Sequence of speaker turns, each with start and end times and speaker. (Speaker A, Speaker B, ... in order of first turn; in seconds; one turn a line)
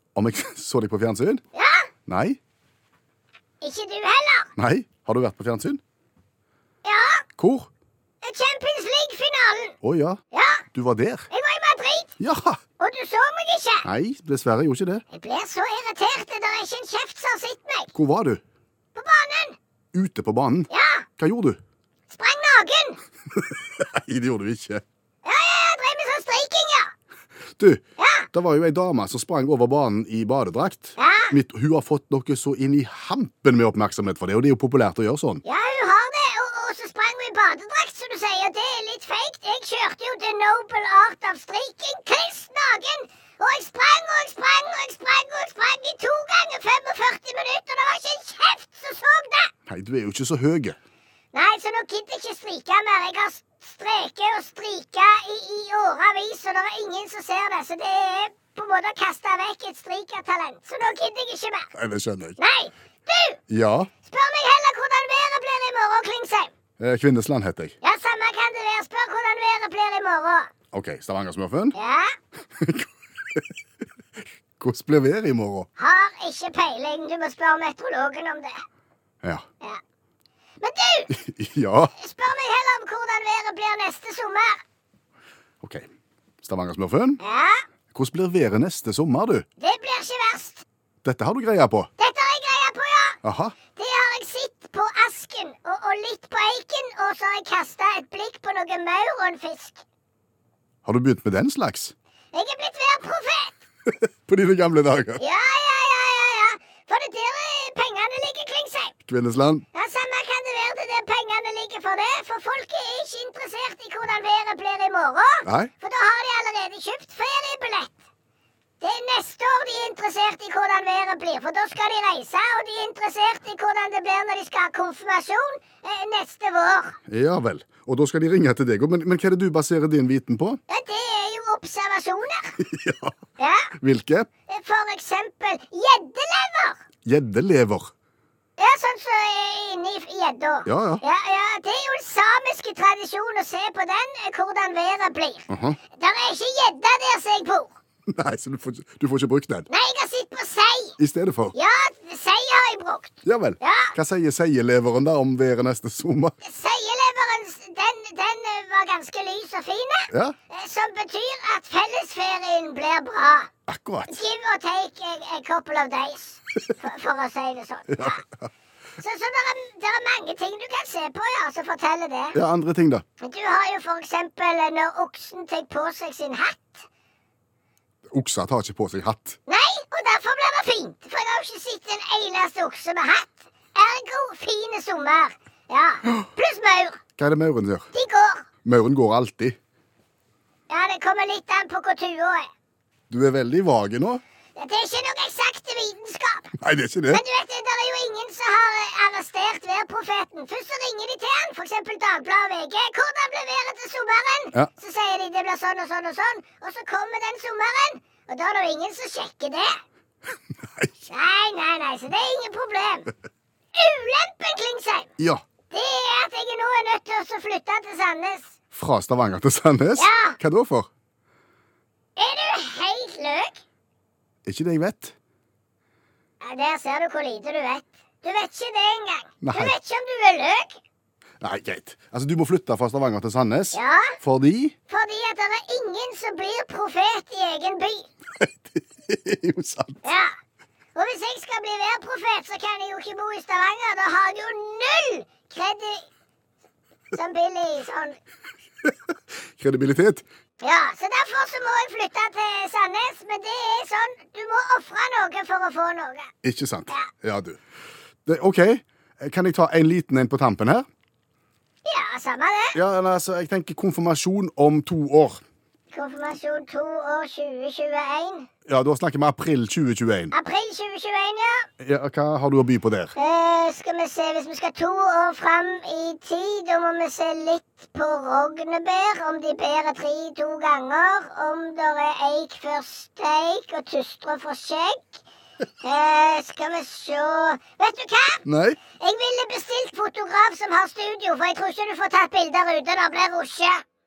Speaker A: 0.1-1.4
Speaker B: 1.5-1.9
Speaker A: 2.1-2.4
Speaker B: 3.6-4.5
Speaker A: 4.6-5.8
Speaker B: 6.8-7.2
Speaker A: 7.4-7.7
Speaker B: 8.2-9.8
Speaker A: 9.8-10.2
Speaker B: 10.3-10.7
Speaker A: 10.7-11.2
Speaker B: 11.3-12.1
Speaker A: 12.2-12.6
Speaker B: 12.8-13.9
Speaker A: 13.8-15.0
Speaker B: 15.1-17.9
Speaker A: 17.9-18.4
Speaker B: 18.9-19.6
Speaker A: 19.9-21.6
Speaker B: 20.7-21.1
Speaker B: 22.1-23.0
Speaker A: 23.4-24.8
Speaker B: 25.2-26.9
Speaker B: 28.0-28.3
Speaker A: 28.3-35.4
Speaker B: 31.0-31.3
Speaker B: 35.4-49.5
Speaker A: 49.7-50.8
Speaker B: 51.3-61.7
Speaker A: 61.7-62.4
Speaker B: 62.4-63.4
Speaker A: 63.5-63.9
Speaker B: 64.0-66.5
Speaker A: 66.8-67.7
Speaker B: 67.8-70.5
Speaker A: 70.7-71.8
Speaker B: 71.7-72.1
Speaker A: 72.6-73.4
Speaker A: 74.6-75.7
Speaker B: 75.8-78.6
Speaker B: 80.6-81.1
Speaker A: 81.1-81.9
Speaker B: 82.0-84.6
Speaker A: 85.6-85.9
Speaker A: 86.4-87.2
Speaker B: 87.2-87.6
Speaker A: 87.9-89.4
Speaker B: 89.6-90.6
Speaker A: 91.0-91.9
Speaker B: 92.0-93.2
Speaker A: 93.2-93.5
Speaker B: 93.7-99.8
Speaker A: 100.8-101.9
Speaker B: 102.3-103.6
Speaker A: 104.0-105.2
Speaker B: 105.2-108.9
Speaker A: 109.1-109.6
Speaker B: 109.7-117.9
Speaker B: 118.8-127.0
Speaker A: 127.1-130.6
Speaker B: 130.7-132.6
Speaker A: 132.6-133.1
Speaker B: 133.4-133.7
Speaker A: 133.8-134.3
Speaker B: 134.5-136.8
Speaker A: 137.0-137.9
Speaker B: 138.6-147.7
Speaker A: 140.7-141.0
Speaker A: 145.5-145.8
Speaker A: 148.1-149.7
Speaker B: 149.7-150.9
Speaker A: 151.0-151.5
Speaker B: 151.5-153.9
Speaker A: 153.2-156.3
Speaker B: 156.4-163.5
Speaker A: 163.7-164.2
Speaker B: 164.1-168.2
Speaker A: 167.9-168.2
Speaker B: 169.0-172.3
Speaker A: 172.3-173.0
Speaker B: 173.2-176.8
Speaker A: 178.1-179.4
Speaker B: 179.5-187.0
Speaker A: 187.2-187.9
Speaker B: 187.9-188.4
Speaker A: 188.6-189.6
Speaker B: 190.7-192.5
Speaker A: 193.1-194.2
Speaker B: 194.6-196.5
Speaker A: 196.6-197.2
Speaker B: 197.1-209.8
Speaker B: 211.1-213.1
Speaker B: 213.7-215.1
Speaker B: 215.7-218.5
Speaker A: 218.7-220.9
Speaker B: 219.9-220.4
Speaker B: 222.2-223.6
Speaker A: 224.4-225.1
Speaker B: 226.4-230.8
Speaker A: 229.4-229.7
Speaker A: 231.4-234.7
Speaker B: 233.7-234.2
Speaker B: 234.9-238.1
Speaker A: 238.4-240.0
Speaker B: 240.0-240.3
Speaker B: 240.9-246.1
Speaker B: 247.1-248.2
Speaker A: 249.6-250.2
Speaker B: 250.6-256.3
Speaker A: 256.4-257.6
Speaker A: 258.2-260.9
Speaker B: 261.8-262.8
Speaker A: 262.7-265.4
Speaker B: 265.9-268.5
Speaker A: 268.7-270.3
Speaker B: 270.3-271.7
Speaker A: 271.8-273.1
Speaker B: 273.1-285.2
Speaker B: 285.8-288.4
Speaker A: 288.4-288.8
Speaker B: 289.0-293.8